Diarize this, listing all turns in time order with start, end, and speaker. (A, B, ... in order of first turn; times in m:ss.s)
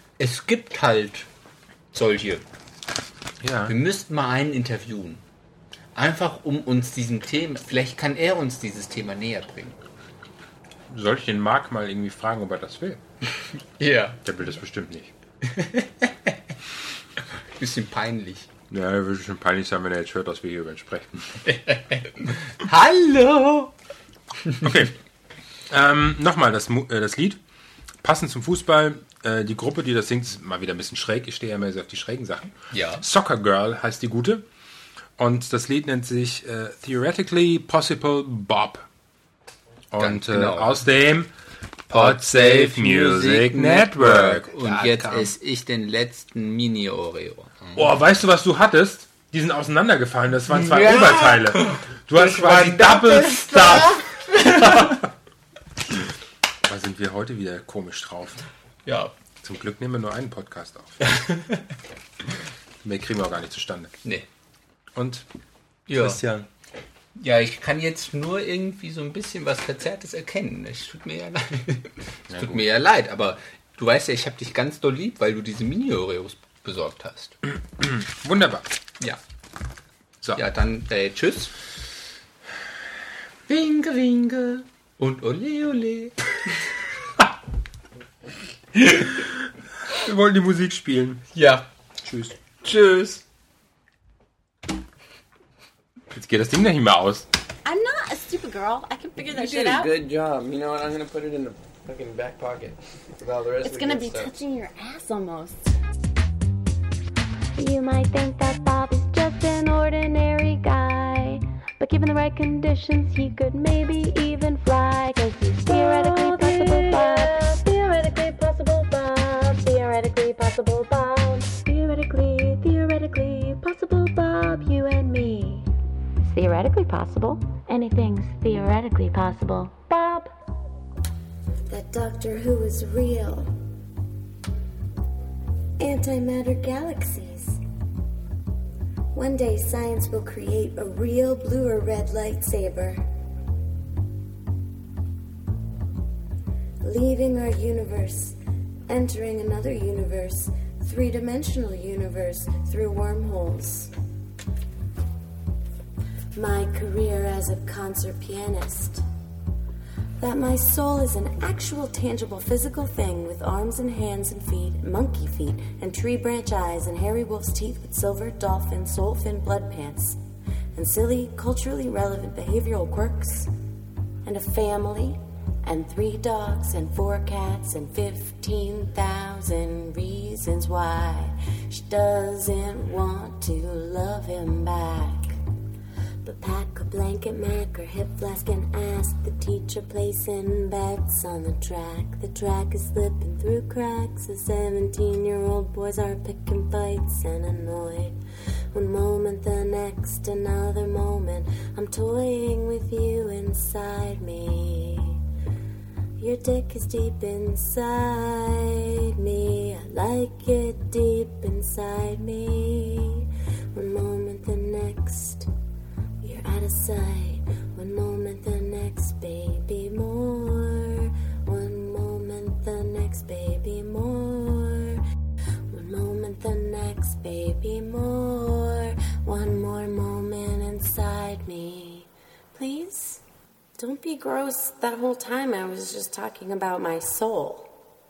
0:00.2-0:01.3 A
0:01.9-0:02.4 A
0:03.4-0:03.8 B
0:03.7-0:05.2 A
0:05.9-0:09.8 A
0:10.9-0:13.0 B
0:13.8-0:14.2 A
0:14.2-0:15.1 B
0:15.4-0:16.4 A
0:17.6-0:18.5 A
0:18.7-0:21.4 B
0:21.4-0:23.7 A
0:24.4-0:24.7 A
0:24.6-0:24.9 B
0:25.7-0:27.4 B
0:28.0-0:34.4 B
0:32.7-0:33.0 A
0:35.2-0:38.9 B
0:39.9-0:41.3 B
0:40.0-0:40.7 A
0:41.9-0:45.3 B
0:41.9-0:47.9 A
0:47.7-0:54.9 B
0:50.5-0:55.0 A
0:56.6-0:58.4 B
0:58.8-0:59.1 A
0:59.4-1:01.2 B
1:01.0-1:01.6 A
1:02.8-1:04.0 B
1:04.9-1:05.3 B
1:05.9-1:06.2 A
1:05.9-1:06.5 B
1:07.2-1:17.4 A
1:12.3-1:12.6 B
1:17.8-1:18.7 B
1:20.3-1:21.5 A
1:23.5-1:26.1 A
1:29.9-1:31.2 B
1:31.3-1:31.7 A
1:32.0-1:32.3 B
1:32.6-1:33.2 A
1:36.1-1:37.3 B
1:37.6-1:40.0 C
1:39.3-1:44.4 D
1:43.6-1:45.8 C
1:47.6-2:05.7 E
1:55.7-1:57.7 F
2:06.2-2:10.3 E
2:11.7-2:13.5 F
2:15.8-2:17.6 F
2:19.1-2:23.0 F
2:26.8-2:28.4 F
2:28.9-2:33.9 F
2:36.3-2:39.0 F
2:40.2-2:50.2 F
2:50.7-2:53.5 F
2:54.2-3:05.4 F
3:06.2-3:18.2 F
3:18.7-3:25.2 F
3:26.2-3:35.5 F
3:36.2-3:45.0 F
3:45.7-3:53.2 F
3:53.8-3:57.7 F